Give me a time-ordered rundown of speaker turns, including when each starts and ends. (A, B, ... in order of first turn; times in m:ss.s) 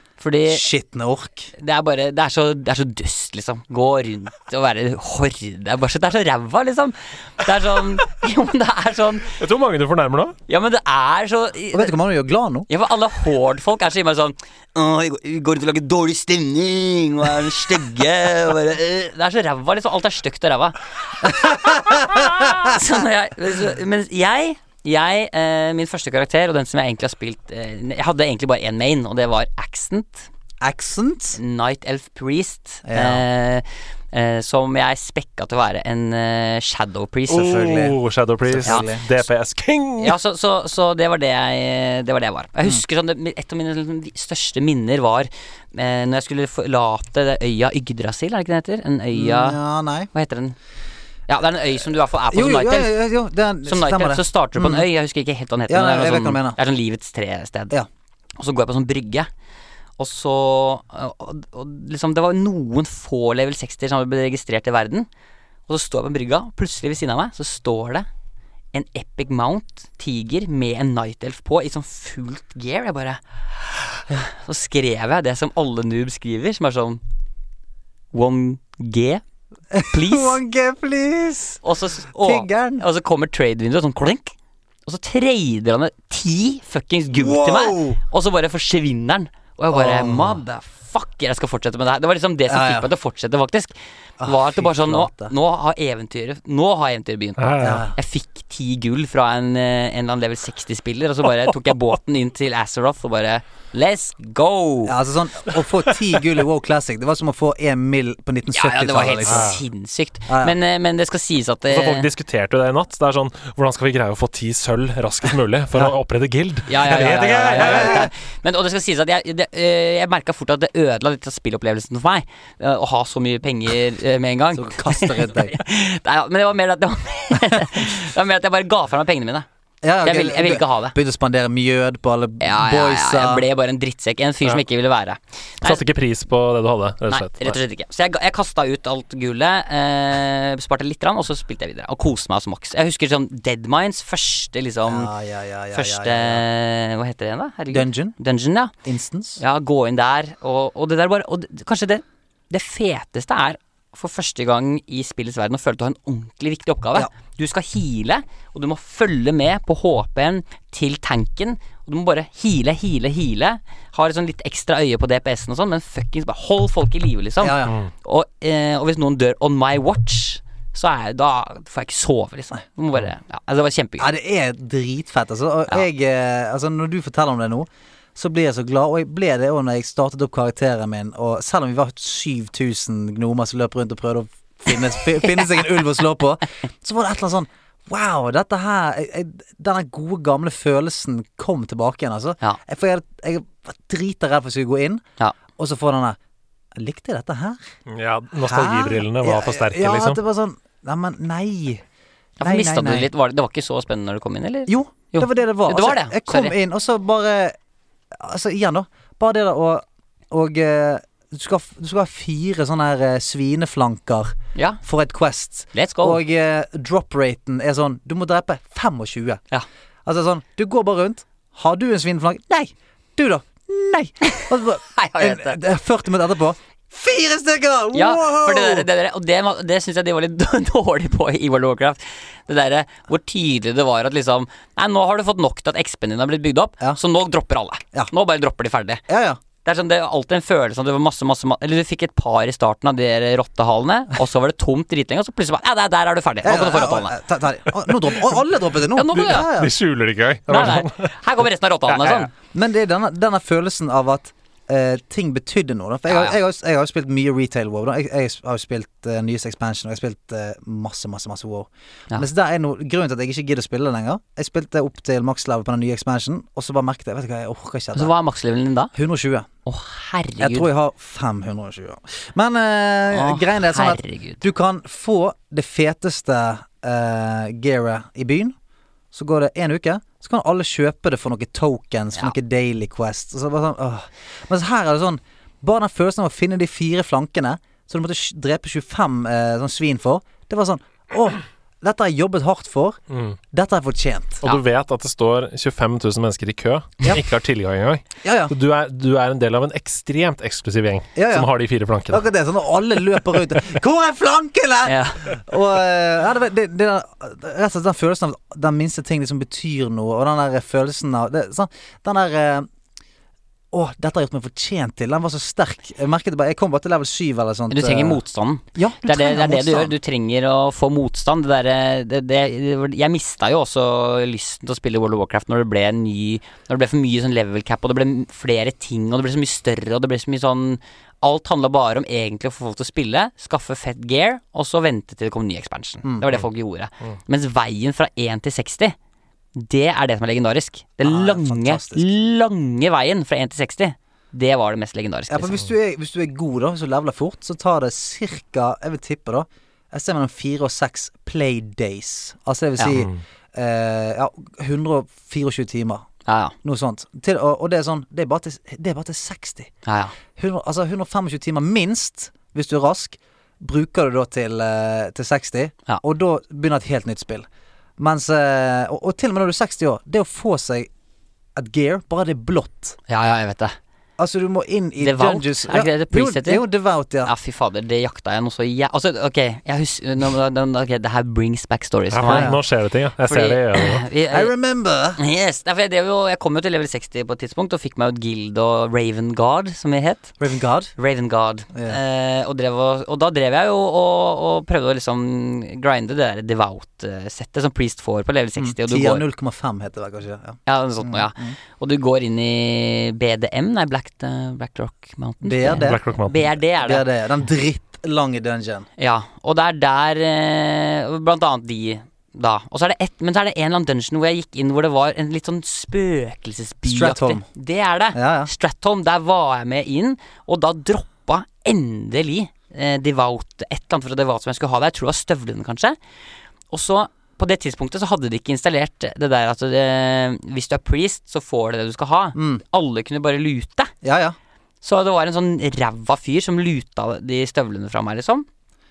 0:00.2-0:00.6 A
0:00.4-0:01.5 B
0:01.6-0:09.3 A
0:09.4-0:10.4 C
0:10.5-0:11.9 A
0:11.7-0:12.7 B
0:12.7-0:30.3 A
0:21.4-0:22.7 B
0:30.6-0:31.4 B
0:31.3-0:37.8 A
0:32.8-0:33.2 B
0:37.3-0:40.2 C
0:37.3-0:39.0 B
0:40.0-0:49.6 A
0:49.1-0:50.1 B
0:50.1-0:50.6 A
0:51.3-0:53.0 A
0:52.3-0:54.9 B
0:53.6-0:57.8 A
0:55.7-0:56.6 B
0:58.4-0:59.3 A
1:00.0-1:05.1 A
1:05.7-1:08.1 A
1:08.7-1:17.0 A
1:18.1-1:19.2 A
1:19.7-1:21.6 B
1:19.8-1:20.4 A
1:21.6-1:24.3 A
1:22.1-1:22.8 B
1:24.8-1:45.0 A
1:27.1-1:28.0 B
1:29.7-1:30.4 B
1:32.5-1:32.9 B
1:34.2-1:35.3 B
1:37.4-1:37.8 C
1:37.6-1:38.0 B
1:44.8-1:49.6 B
1:48.5-1:52.1 A
1:49.2-1:49.6 C
1:50.3-1:50.5 B
1:51.7-1:58.1 C
1:56.7-2:09.4 A
1:56.9-1:58.1 B
2:04.5-2:05.6 B
2:09.8-2:13.4 B
2:10.0-2:11.0 A
2:12.4-2:15.8 A
2:15.6-2:17.6 C
2:17.1-2:25.1 A
2:24.8-2:26.4 B
2:25.7-2:28.7 A
2:27.7-2:28.2 B
2:28.8-2:29.4 B
2:29.4-2:54.1 A
2:47.4-2:47.8 B
2:54.0-3:15.0 B
3:15.6-3:16.2 B
3:16.7-3:17.6 B
3:17.9-3:20.2 C
3:18.4-3:21.8 B
3:22.4-3:26.6 A
3:22.4-3:23.1 B
3:24.7-3:27.6 B
3:28.1-3:39.4 B
3:34.5-3:34.8 A
3:35.7-3:36.2 A
3:40.0-3:48.9 B
3:44.2-3:45.6 A
3:47.9-3:59.0 A
3:59.1-3:59.4 B
3:59.6-4:07.2 A
4:06.4-4:09.7 B
4:08.9-4:09.5 A
4:09.1-4:11.1 C
4:10.5-4:12.3 A
4:11.9-4:12.3 C
4:12.5-4:28.1 B
4:16.1-4:16.4 A
4:27.9-4:28.9 A
4:28.9-4:29.5 B
4:29.6-4:30.7 A
4:30.4-4:38.5 B
4:33.1-4:34.4 A
4:39.1-4:53.0 B
4:53.1-4:53.4 C
4:53.5-4:54.4 B
4:54.4-5:02.2 C
4:58.2-4:58.5 B
5:01.2-5:01.5 B
5:02.1-5:12.7 B
5:04.8-5:05.2 A
5:13.7-5:18.2 B
5:17.7-5:39.0 A
5:18.7-5:19.9 B
5:36.0-5:36.3 B
5:39.5-5:45.6 A
5:41.0-5:42.1 B
5:45.3-5:56.0 B
5:56.2-5:56.5 A
5:56.6-5:59.7 B
5:59.8-6:00.1 A
6:00.4-6:07.5 B
6:08.0-6:10.9 B
6:11.6-6:13.0 B
6:13.1-6:13.8 A
6:14.2-6:17.3 B
6:15.0-6:16.6 A
6:17.2-6:22.6 A
6:22.1-6:24.0 C
6:22.2-6:22.6 B
6:23.2-6:24.5 A
6:24.3-6:25.2 B
6:25.2-6:30.3 A
6:30.4-6:30.9 B
6:31.0-6:39.2 A
6:31.7-6:32.0 B
6:38.6-6:41.6 B
6:40.6-6:47.0 A
6:45.4-6:46.0 B
6:45.8-6:46.4 C
6:46.8-6:48.8 B
6:49.0-7:06.0 A
6:56.8-6:57.4 B
6:58.1-6:58.5 B
7:06.7-7:13.9 A
7:12.3-7:12.6 B
7:14.0-7:14.4 B
7:14.8-7:18.5 A